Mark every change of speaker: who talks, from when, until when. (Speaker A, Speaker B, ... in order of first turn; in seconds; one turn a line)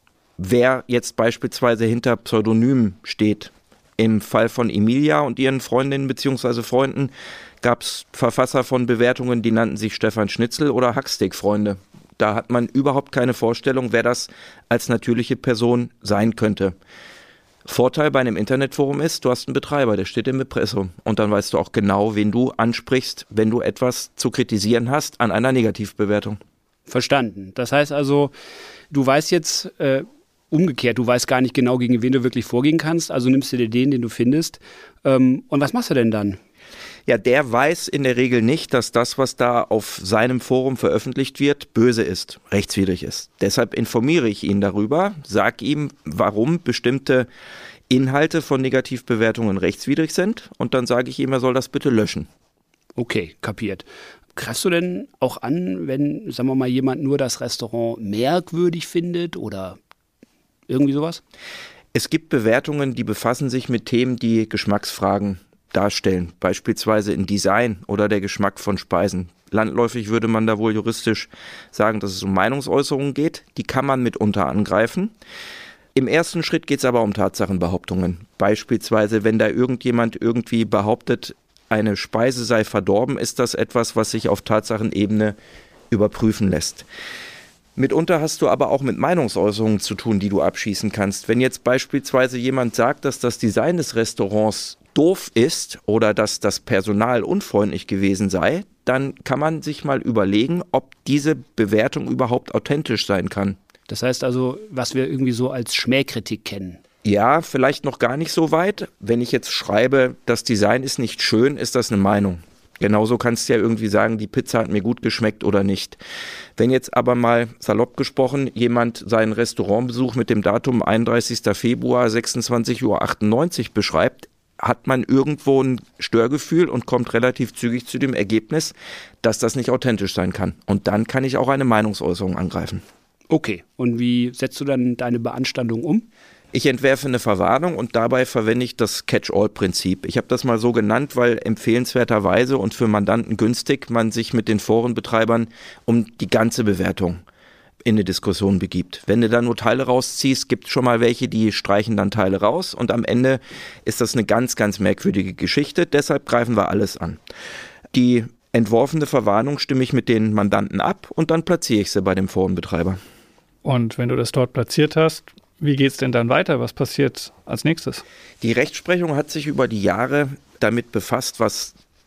Speaker A: 0.4-16.8
Speaker A: 17.7-26.4
Speaker B: 26.9-28.3
Speaker B: 28.9-36.4
Speaker A: 37.1-47.3
Speaker A: 47.9-52.3
Speaker B: 53.0-59.8
Speaker B: 60.7-61.2
Speaker A: 61.9-75.1
Speaker A: 76.0-85.4
Speaker A: 85.9-86.9
Speaker A: 87.8-103.6
Speaker B: 103.9-106.8
Speaker A: 107.0-116.0
Speaker A: 116.6-132.8
Speaker B: 133.3-136.1
Speaker A: 136.5-147.2
Speaker A: 147.8-157.2
Speaker A: 157.9-163.0
Speaker C: 163.6-168.0
Speaker A: 168.4-171.8